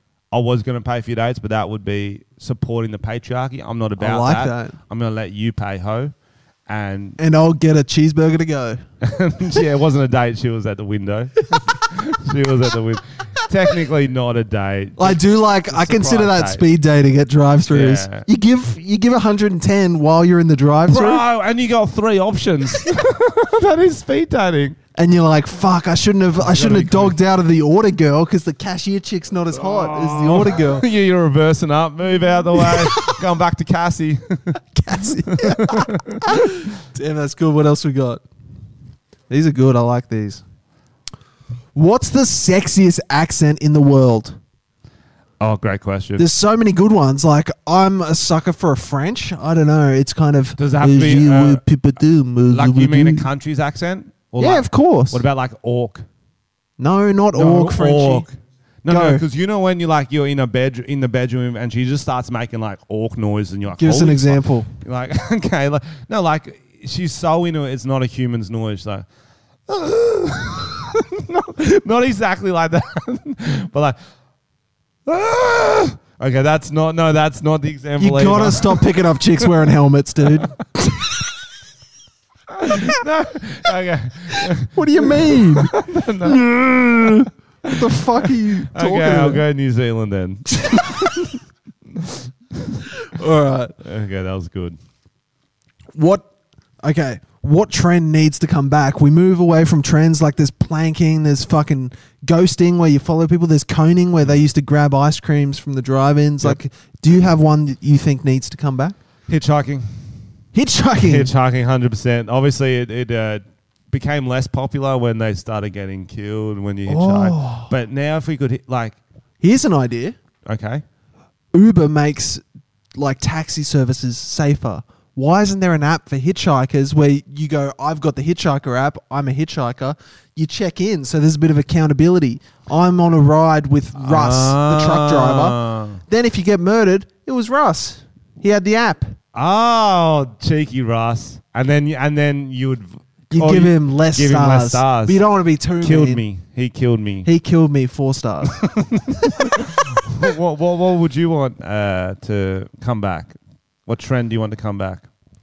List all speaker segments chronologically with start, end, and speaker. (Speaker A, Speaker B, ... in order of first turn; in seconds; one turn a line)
Speaker A: 0.3-6.1
Speaker B: 4.0-4.8
Speaker A: 6.7-7.2
Speaker B: 7.2-8.8
Speaker A: 9.0-16.6
Speaker B: 15.0-21.2
Speaker A: 17.7-18.3
Speaker A: 20.9-24.8
Speaker B: 24.9-30.9
Speaker A: 26.4-27.2
Speaker A: 29.5-34.6
Speaker B: 32.6-33.2
Speaker B: 34.8-38.2
Speaker A: 35.3-36.5
Speaker B: 39.3-40.4
Speaker B: 41.8-44.4
Speaker A: 45.4-46.3
Speaker B: 46.2-53.3
Speaker A: 50.6-51.6
Speaker A: 52.5-56.1
Speaker B: 54.4-55.2
Speaker B: 56.8-58.3
Speaker A: 57.3-69.1
Speaker B: 58.9-59.2
Speaker B: 63.8-64.7
Speaker A: 69.7-74.0
Speaker A: 75.1-79.5
Speaker B: 78.0-81.0
Speaker A: 82.5-91.3
Speaker B: 84.7-89.4
Speaker B: 90.5-91.3
Speaker A: 91.9-92.8
Speaker B: 93.0-93.8
Speaker A: 93.8-94.8
Speaker B: 95.9-96.3
Speaker B: 96.8-109.0
Speaker A: 109.3-110.1
Speaker B: 110.5-111.3
Speaker A: 111.0-119.0
Speaker B: 116.9-117.7
Speaker B: 119.4-120.2
Speaker A: 120.5-120.8
Speaker B: 121.5-122.4
Speaker B: 122.9-139.2
Speaker A: 133.9-136.0
Speaker A: 139.3-145.2
Speaker B: 143.3-146.2
Speaker A: 145.8-147.3
Speaker B: 147.2-148.6
Speaker A: 148.5-155.1
Speaker B: 149.2-149.6